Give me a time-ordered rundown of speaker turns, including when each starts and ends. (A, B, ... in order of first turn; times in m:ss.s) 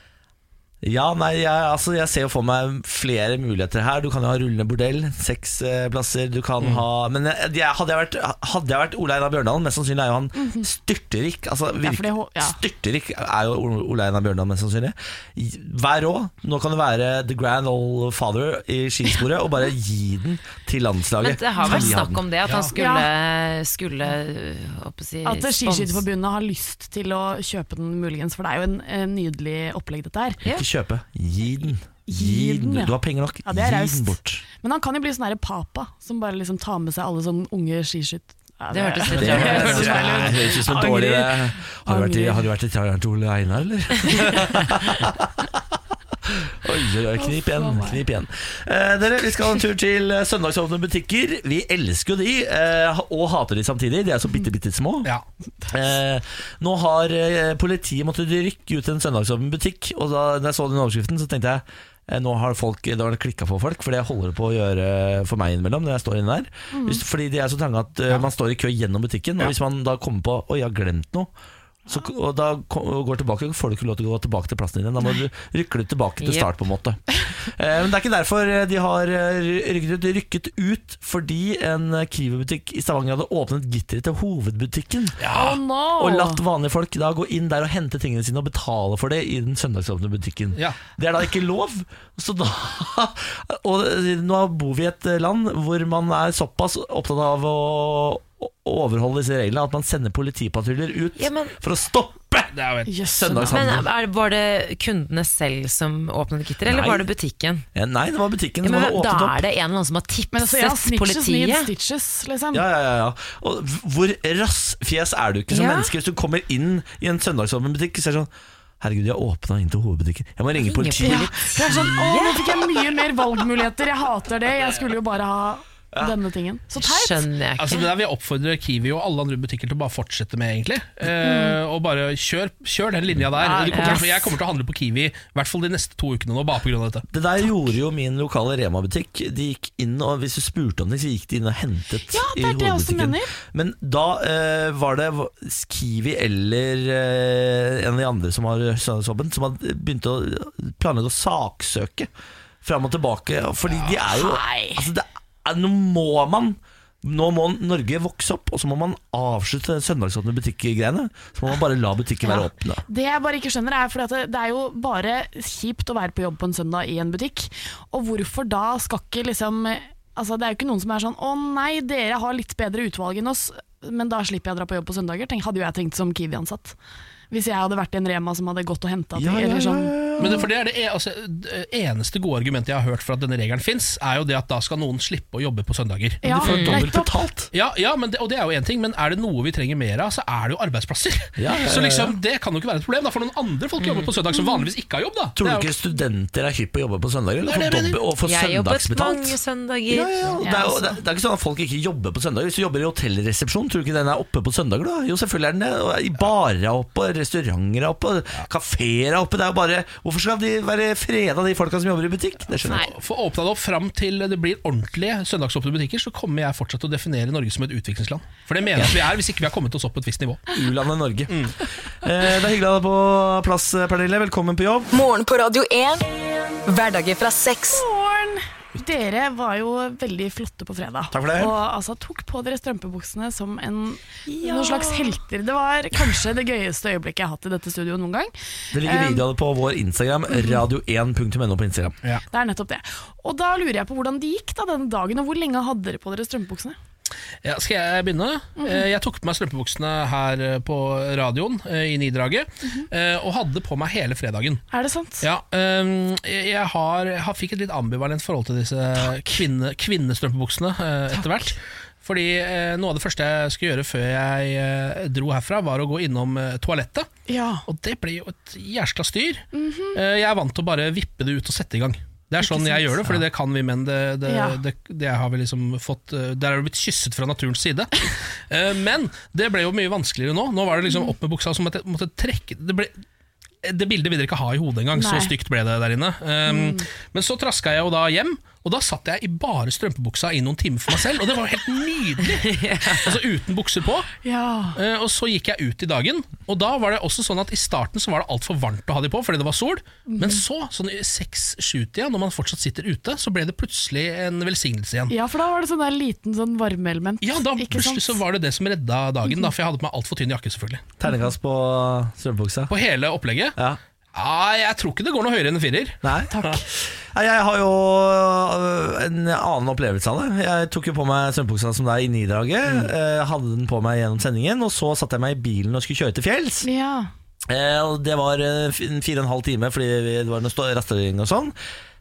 0:00.8-0:22.2 A
0:10.4-0:10.7 B
0:11.8-0:12.6 B
0:21.2-0:26.0 C
0:22.4-0:22.7 D
0:22.7-0:23.1 B
0:25.2-0:30.4 B
0:30.4-0:34.4 A
0:32.1-0:42.4 B
0:38.7-0:40.3 C
0:39.1-0:40.4 D
0:39.1-0:45.6 A
0:46.6-0:55.1 A
0:47.2-0:48.0 B
0:55.7-1:11.3 A
1:06.7-1:07.0 B
1:11.9-1:25.2 A
1:16.2-1:16.5 C
1:25.2-1:25.6 D
1:25.3-1:26.4 B
1:26.0-1:42.5 A
1:41.2-1:41.5 C
1:42.5-1:42.9 D
1:42.9-1:43.6 B
1:43.1-1:43.8 A
1:43.2-1:47.6 C
1:46.6-1:47.0 A
1:47.7-1:49.4 A
1:48.6-1:51.7 C
1:50.3-1:52.6 B
1:52.5-2:01.9 A
1:55.5-1:55.9 C
2:00.6-2:02.5 C
2:01.0-2:07.3 B
2:06.7-2:07.9 C
2:07.6-2:17.0 D
2:11.2-2:11.6 B
2:13.4-2:14.4 B
2:13.7-2:14.0 C
2:17.1-2:32.1 A
2:22.1-2:23.3 B
2:32.6-2:42.8 A
2:34.0-2:34.9 B
2:42.2-2:56.8 B
2:57.3-3:00.4 B
2:59.2-3:00.4 A
3:00.2-3:06.9 D
3:06.2-3:07.2 B
3:06.4-3:07.5 A
3:07.5-3:15.7 D
3:11.4-3:12.2 A
3:14.4-3:14.6 B
3:15.4-3:19.4 A
3:17.4-3:18.0 D
3:18.2-3:20.2 C
3:19.9-3:32.9 A
3:20.4-3:21.0 B
3:32.6-3:40.4 D
3:40.5-3:44.9 A
3:41.3-3:41.5 D
3:44.9-3:46.1 E
3:46.7-3:47.8 E
3:47.7-3:59.2 B
3:51.1-3:51.5 A
3:54.4-3:55.1 C
3:58.7-4:02.0 A
4:00.3-4:00.6 B
4:02.3-4:06.8 B
4:07.4-4:14.6 D
4:08.6-4:08.8 B
4:14.7-4:15.2 B
4:15.2-4:27.1 D
4:27.3-4:27.6 B
4:27.6-4:42.9 D
4:29.5-4:30.0 B
4:32.4-4:33.2 B
4:34.2-4:34.6 B
4:40.8-4:41.1 B
4:43.6-4:54.1 D
4:44.9-4:45.3 B
4:46.5-4:46.8 B
4:52.3-4:53.1 C
4:54.2-4:54.8 B
4:54.8-5:05.1 D
5:00.1-5:00.4 B
5:05.1-5:08.2 B
5:07.2-5:10.9 D
5:09.2-5:09.5 B
5:11.0-5:12.7 A
5:12.7-5:13.6 D
5:14.1-5:16.6 D
5:16.0-5:26.7 A
5:16.3-5:16.6 B
5:26.6-5:27.1 B
5:27.5-5:31.5 A